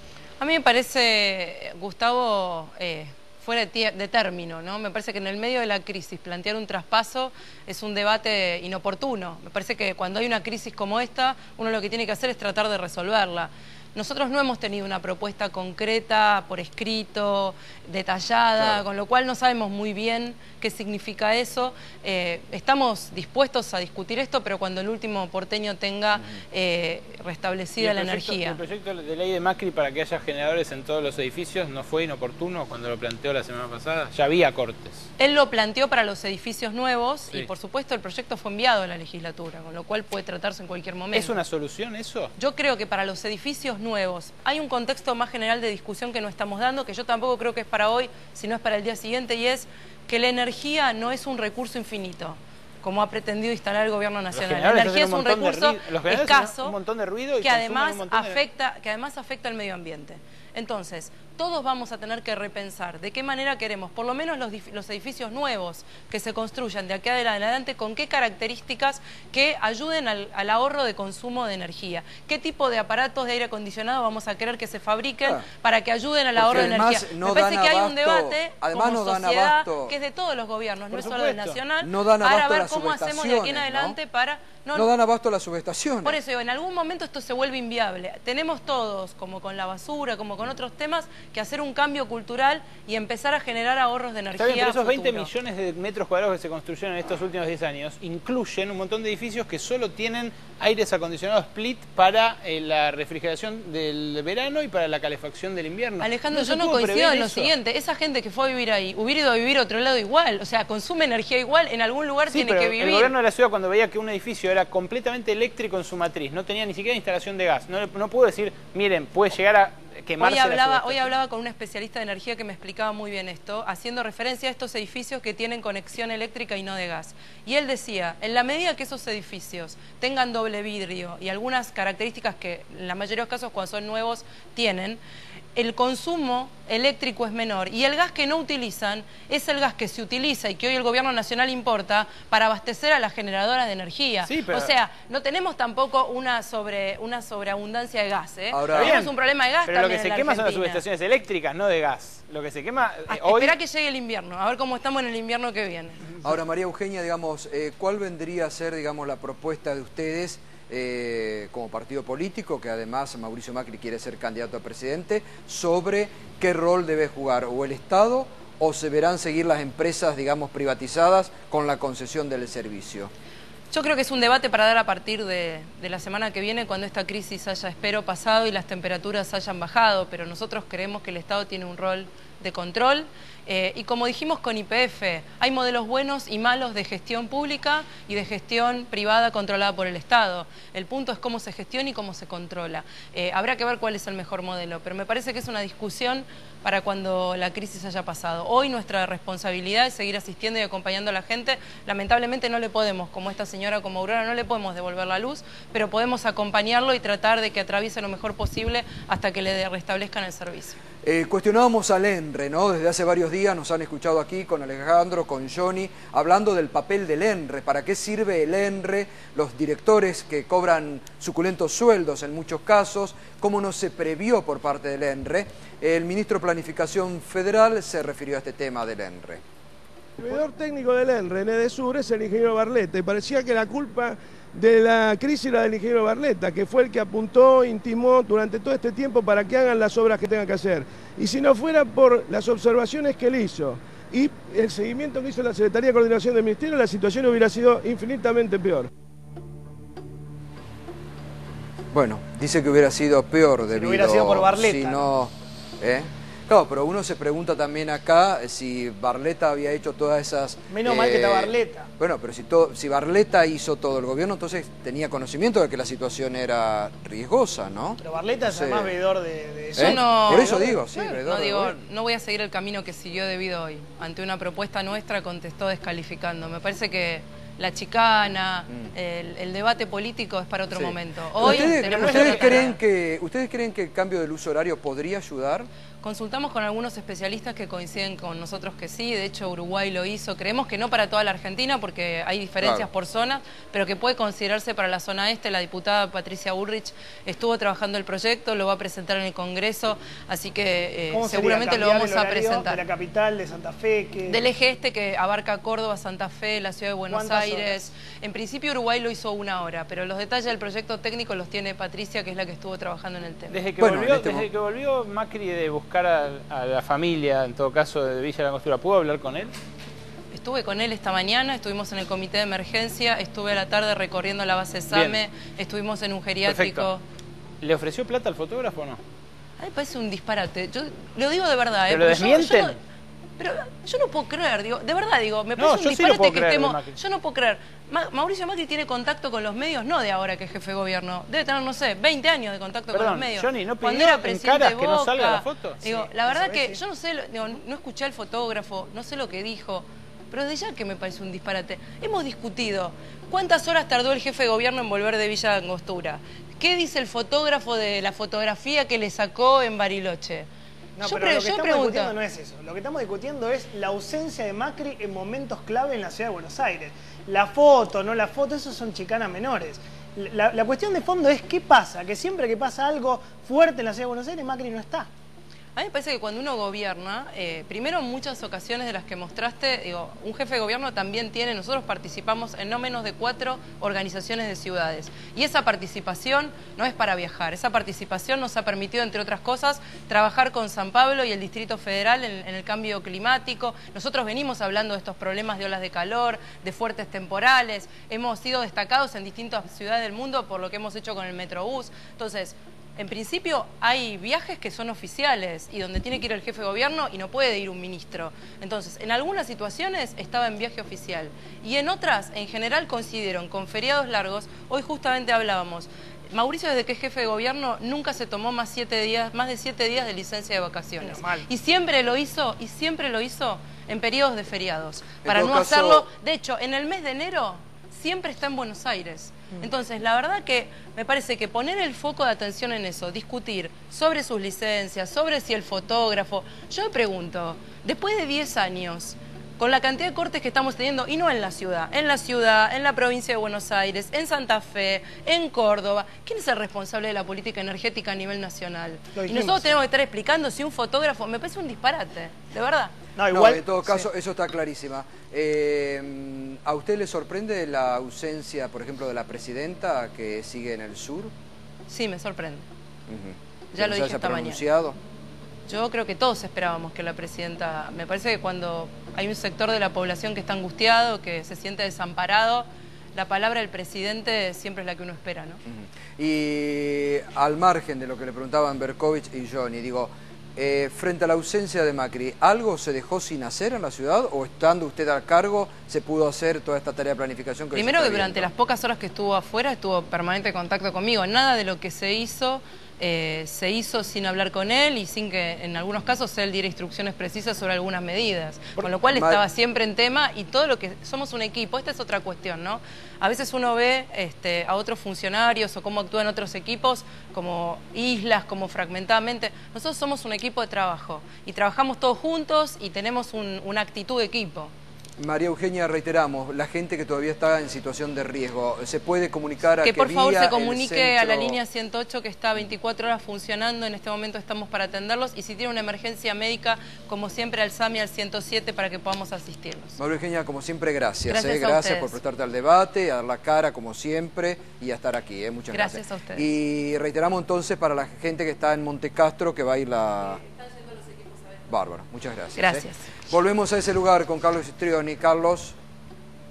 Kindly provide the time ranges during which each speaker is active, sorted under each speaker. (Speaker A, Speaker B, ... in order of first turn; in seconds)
Speaker A: 0.4-28.6, 35.2-41.4, 42.4-56.8, 57.4-84.9, 86.0-95.3, 106.0-113.1, 120.2-135.0, 135.6-150.8, 153.1-156.0, 173.7-210.8, 269.8-282.8, 286.0-302.8, 304.2-313.6, 320.3-327.0, 329.6-332.8, 333.4-360.5, 361.0-362.1, 375.8-452.9, 461.9-462.6, 463.7-464.6, 465.7-475.6, 487.7-514.7, 519.8-530.0, 531.3-532.1, 535.7-536.5, 540.8-541.3, 542.6-543.0
Speaker B: 18.6-18.8, 76.3-79.9, 81.8-84.0, 84.7-86.2, 148.5-149.0, 156.2-173.1, 211.0-229.4, 251.9-268.9, 269.8-271.8, 280.7-285.7, 292.6-292.9, 313.8-314.5, 425.2-426.1, 453.3-461.3, 463.1-464.9, 475.7-488.5, 498.8-499.4, 515.2-521.6, 530.0-540.4, 541.7-545.8
Speaker C: 27.8-35.1, 41.1-42.3, 54.3-58.4, 80.9-81.6, 94.4-107.5, 112.3-121.1, 144.2-144.7, 148.7-149.1, 149.6-153.5, 281.4-282.8, 313.5-319.5, 324.9-325.2, 326.4-326.9, 327.6-329.0, 331.9-332.8, 335.6-336.9, 342.9-346.1
Speaker D: 230.2-248.9
Speaker E: 253.7-255.1, 260.7-261.9, 268.0-270.9, 301.1-304.4, 307.1-307.9, 346.2-346.8, 360.9-375.1, 421.0-421.5, 449.1-449.7, 453.2-454.1